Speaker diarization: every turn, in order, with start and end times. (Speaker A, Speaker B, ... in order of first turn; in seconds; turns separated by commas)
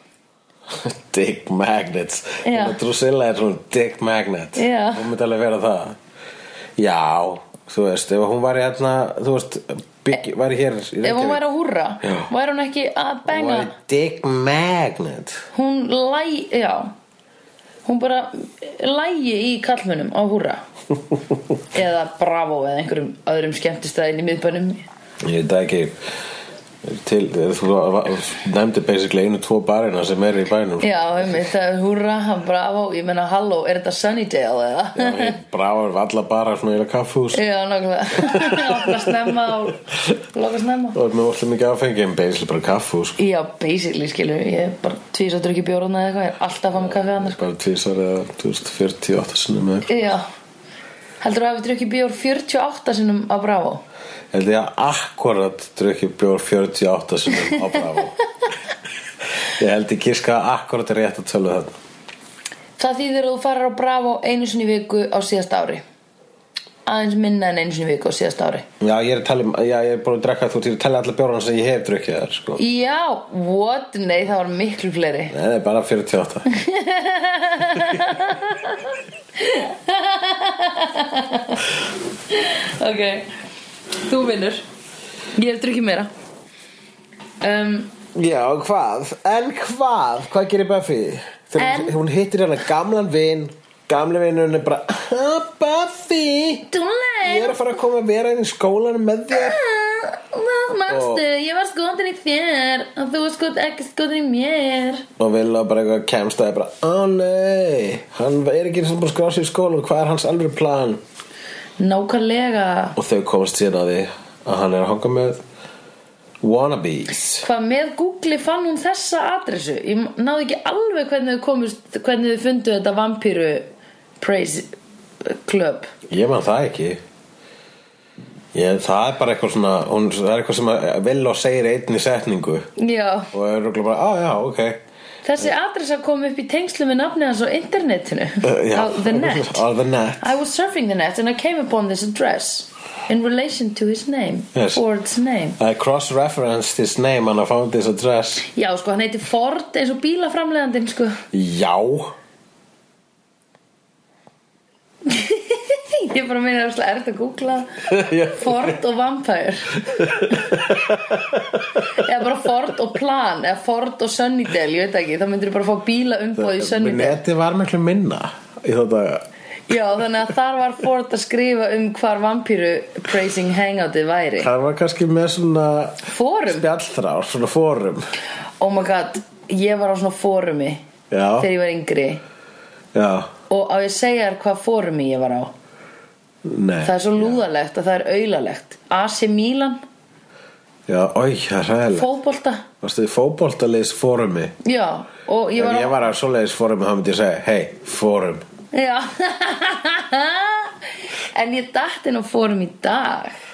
Speaker A: 0.7-6.0, Speaker B: 2.4-2.8, Speaker B: 4.6-5.1, Speaker A: 6.8-11.4, Speaker B: 11.0-13.7, Speaker A: 12.0-12.3, Speaker A: 13.3-15.4, Speaker B: 15.5-16.9, Speaker B: 17.9-20.6, Speaker B: 21.7-24.9, Speaker A: 25.2-26.0, Speaker A: 26.8-31.5, Speaker B: 30.8-35.4, Speaker A: 35.0-37.4, Speaker B: 37.3-41.0, Speaker A: 38.1-39.6, Speaker A: 40.9-43.2, Speaker B: 43.2-47.4, Speaker A: 46.7-50.1, Speaker B: 49.9-50.3, Speaker B: 51.2-53.8, Speaker A: 54.3-58.2, Speaker B: 57.5-57.8, Speaker A: 59.4-61.8, Speaker B: 62.8-65.8, Speaker B: 66.9-68.7, Speaker A: 68.8-72.6, Speaker B: 72.6-75.3, Speaker A: 75.3-76.5, Speaker B: 76.5-81.8, Speaker B: 82.3-83.3, Speaker B: 84.0-84.6, Speaker B: 85.3-86.1, Speaker B: 87.4-88.0, Speaker A: 88.1-96.7, Speaker B: 91.6-92.0, Speaker B: 96.7-97.7, Speaker A: 97.2-99.6, Speaker B: 99.3-105.1, Speaker A: 100.9-101.2, Speaker A: 105.2-111.0, Speaker B: 111.8-113.0, Speaker A: 113.0-115.4, Speaker A: 116.4-117.5, Speaker B: 117.2-123.7, Speaker B: 124.2-124.7, Speaker B: 125.2-125.9, Speaker A: 126.1-127.0, Speaker A: 128.5-132.7, Speaker B: 132.8-133.3, Speaker A: 133.3-134.8, Speaker B: 135.2-139.6, Speaker A: 138.4-140.3, Speaker B: 140.2-145.6, Speaker A: 144.6-144.8, Speaker A: 145.6-148.4, Speaker B: 148.5-151.2, Speaker A: 151.3-152.2, Speaker B: 155.1-161.2, Speaker A: 157.9-158.8, Speaker A: 159.9-161.8, Speaker B: 161.8-167.2, Speaker A: 166.4-169.3, Speaker B: 169.7-174.5, Speaker A: 174.4-178.0, Speaker B: 176.1-176.7, Speaker B: 178.6-180.8, Speaker A: 181.1-181.5, Speaker B: 181.4-182.2, Speaker A: 182.9-183.3, Speaker B: 183.5-185.5, Speaker A: 186.4-187.4, Speaker B: 186.8-189.8, Speaker A: 190.9-192.1, Speaker B: 191.9-192.7, Speaker A: 192.8-194.6, Speaker B: 194.6-196.0, Speaker A: 195.6-198.4, Speaker B: 198.7-203.4